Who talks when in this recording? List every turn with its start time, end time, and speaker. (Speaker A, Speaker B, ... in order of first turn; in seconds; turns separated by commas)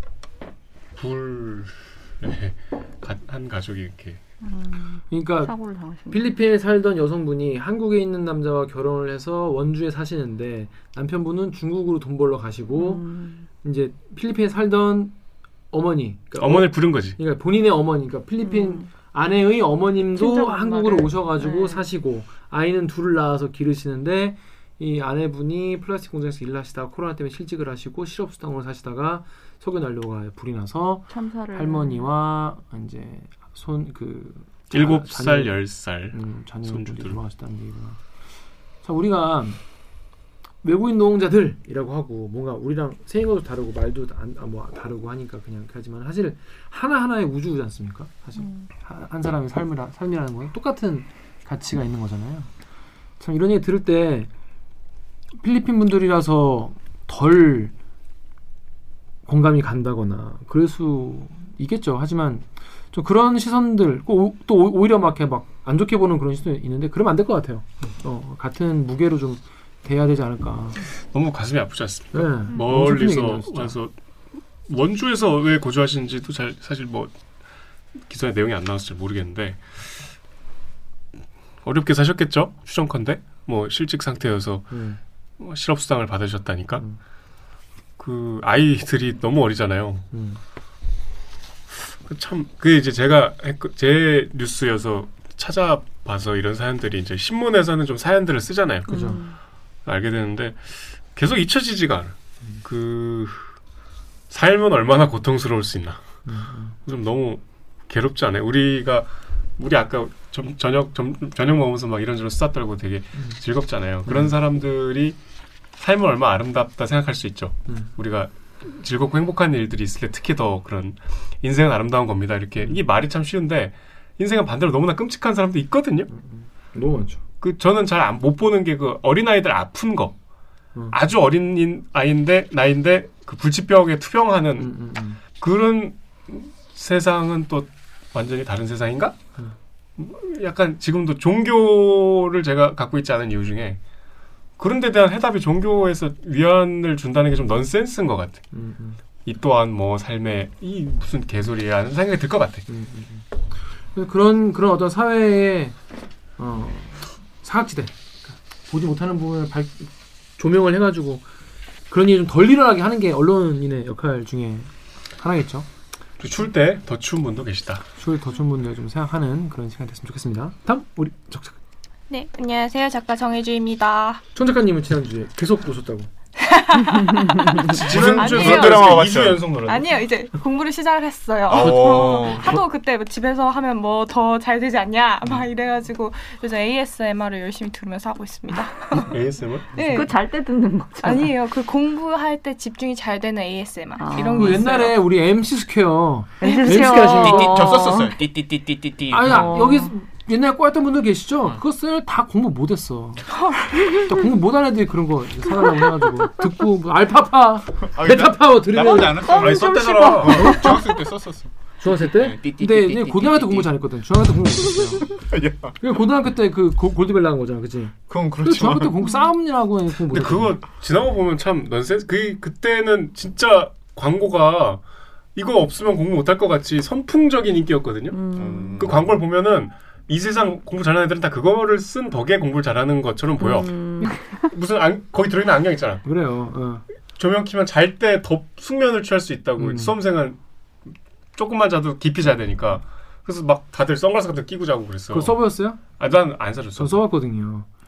Speaker A: 0.9-4.2, Speaker B: 4.4-6.2, Speaker C: 5.1-5.5, Speaker C: 6.1-13.1, Speaker B: 12.7-13.4, Speaker C: 13.6-15.1, Speaker C: 15.7-35.6, Speaker A: 16.4-17.2, Speaker B: 18.4-18.9, Speaker B: 20.1-21.8, Speaker B: 31.1-32.1, Speaker A: 34.7-37.2, Speaker C: 36.1-38.0, Speaker C: 38.8-39.6, Speaker C: 40.6-52.5, Speaker C: 53.2-54.3, Speaker C: 55.4-57.7, Speaker C: 59.2-70.8, Speaker A: 71.1-73.9, Speaker C: 72.1-73.8, Speaker A: 74.6-77.1, Speaker A: 78.1-79.9, Speaker A: 81.6-84.8, Speaker C: 84.7-85.0, Speaker A: 85.4-86.8, Speaker A: 88.0-90.1, Speaker C: 90.1-90.4, Speaker A: 91.9-98.9, Speaker C: 98.9-99.2, Speaker B: 98.9-99.4, Speaker A: 99.8-103.5, Speaker A: 104.3-106.2, Speaker C: 106.2-106.7, Speaker A: 106.8-115.2, Speaker C: 114.0-114.3, Speaker A: 115.8-126.1, Speaker C: 126.1-127.2, Speaker A: 127.4-130.1, Speaker A: 130.9-134.7, Speaker C: 134.6-135.2, Speaker A: 135.3-139.2, Speaker A: 140.0-143.8, Speaker A: 144.6-148.4, Speaker C: 148.5-149.0, Speaker A: 149.2-152.7, Speaker C: 152.7-153.3, Speaker C: 153.9-155.7, Speaker C: 156.4-161.2, Speaker C: 161.9-165.7, Speaker A: 166.2-167.8, Speaker C: 168.0-171.6, Speaker D: 172.1-174.2, Speaker C: 174.3-176.1, Speaker D: 176.4-179.0, Speaker A: 177.7-179.9, Speaker E: 177.8-179.5, Speaker D: 179.6-189.1, Speaker E: 181.5-182.6, Speaker A: 189.0-189.8, Speaker D: 189.7-190.1, Speaker B: 189.8-191.3, Speaker D: 191.0-195.0, Speaker B: 194.0-194.6, Speaker C: 194.2-197.5, Speaker B: 196.4-198.2, Speaker D: 196.4-197.4, Speaker E: 196.9-199.6, Speaker C: 199.1-203.2, Speaker B: 199.2-199.9, Speaker D: 203.3-204.1, Speaker C: 204.0-209.3, Speaker E: 207.9-213.7, Speaker B: 208.9-210.8, Speaker A: 209.3-210.6, Speaker C: 211.8-215.1, Speaker E: 215.1-215.8, Speaker C: 215.8-220.6, Speaker E: 218.1-218.9, Speaker A: 220.1-224.8, Speaker A: 225.3-228.2, Speaker B: 228.1-228.8, Speaker E: 228.3-229.1, Speaker A: 228.8-236.0, Speaker B: 233.4-234.5, Speaker C: 236.0-236.8, Speaker A: 237.2-247.0, Speaker C: 239.6-239.9, Speaker C: 245.1-245.8, Speaker C: 246.8-247.7